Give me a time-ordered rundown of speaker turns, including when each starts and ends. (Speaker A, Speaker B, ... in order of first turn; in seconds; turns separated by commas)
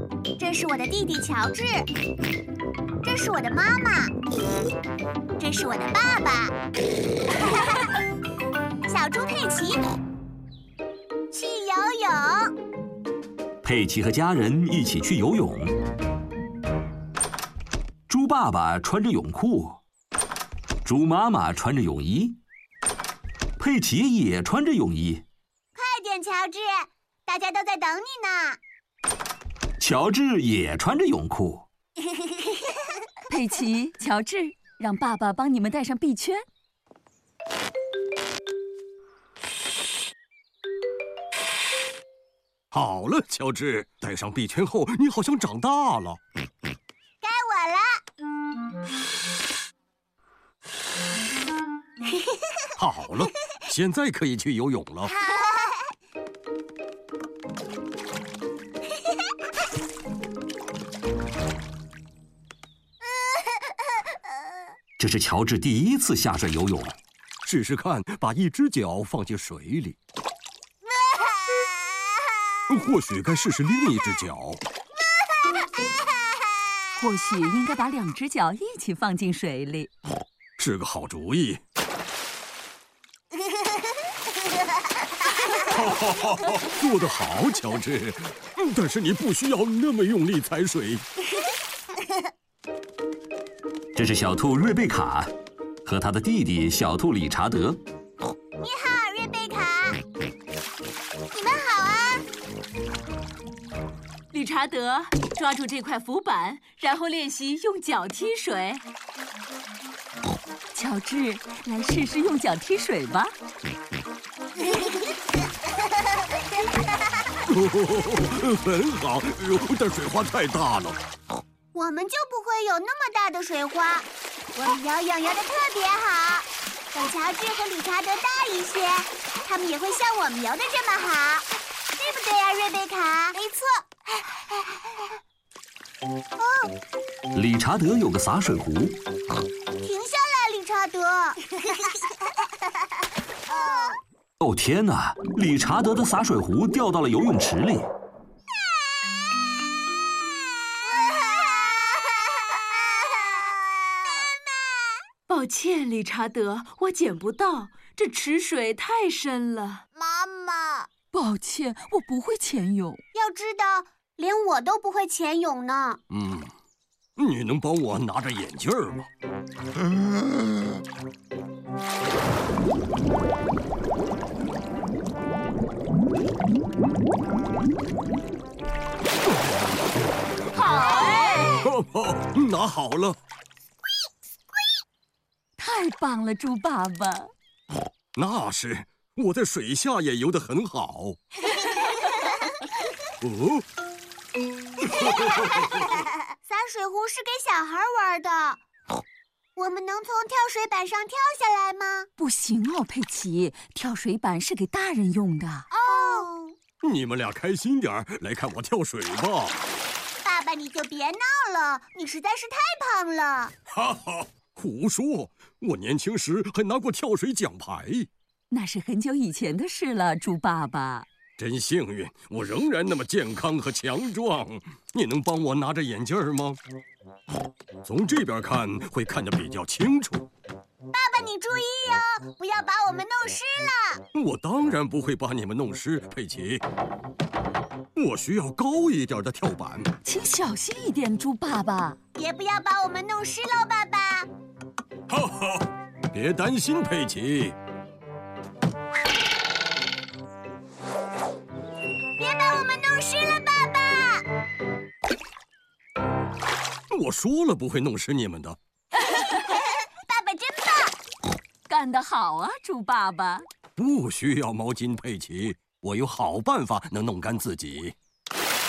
Speaker A: 0.4-1.9, Speaker A: 3.0-4.1, Speaker A: 5.4-6.5, Speaker A: 8.8-9.8, Speaker A: 11.3-12.5, Speaker B: 13.6-15.8, Speaker B: 18.1-19.8, Speaker B: 20.8-22.4, Speaker B: 23.6-25.2, Speaker A: 25.7-28.6, Speaker B: 29.8-31.7, Speaker C: 33.3-36.5, Speaker D: 42.7-46.2, Speaker A: 47.2-48.0, Speaker D: 52.8-55.1, Speaker A: 55.1-55.9, Speaker B: 65.0-67.0, Speaker D: 67.4-70.0, Speaker A: 71.0-71.7, Speaker D: 72.7-74.6, Speaker C: 77.0-79.9, Speaker D: 80.6-81.6, Speaker D: 85.5-91.1, Speaker B: 94.0-95.3, Speaker B: 95.8-97.8, Speaker A: 98.6-100.0, Speaker A: 101.3-102.2, Speaker C: 104.3-108.8, Speaker C: 110.7-113.3, Speaker D: 117.5-121.0, Speaker A: 121.7-131.5, Speaker A: 132.0-133.9, Speaker A: 136.4-136.7, Speaker B: 137.3-139.0, Speaker A: 139.8-142.0, Speaker A: 143.5-144.0, Speaker B: 144.4-147.9, Speaker A: 151.1-151.8, Speaker A: 152.6-153.6, Speaker C: 155.3-159.8, Speaker A: 160.0-160.9, Speaker C: 161.1-163.0, Speaker A: 163.1-166.0, Speaker D: 166.1-166.5, Speaker D: 167.2-169.1, Speaker C: 180.5-181.7, Speaker D: 181.6-183.2, Speaker C: 185.6-187.3, Speaker D: 188.2-191.2, Speaker D: 193.2-193.6, Speaker A: 196.4-198.6, Speaker A: 199.6-202.1, Speaker C: 202.2-205.7, Speaker A: 205.7-206.6, Speaker D: 206.8-209.6, Speaker A: 210.2-213.5, Speaker D: 213.7-218.1, Speaker C: 218.5-221.1, Speaker D: 221.4-226.6, Speaker D: 227.8-230.3, Speaker A: 230.9-234.0, Speaker D: 234.1-236.6, Speaker D: 237.9-239.9, Speaker C: 240.1-242.0, Speaker A: 242.2-244.3, Speaker D: 245.1-247.6, Speaker A: 252.2-254.2, Speaker D: 256.9-258.6, Speaker A: 259.0-260.9, Speaker C: 261.7-263.4, Speaker D: 263.8-267.9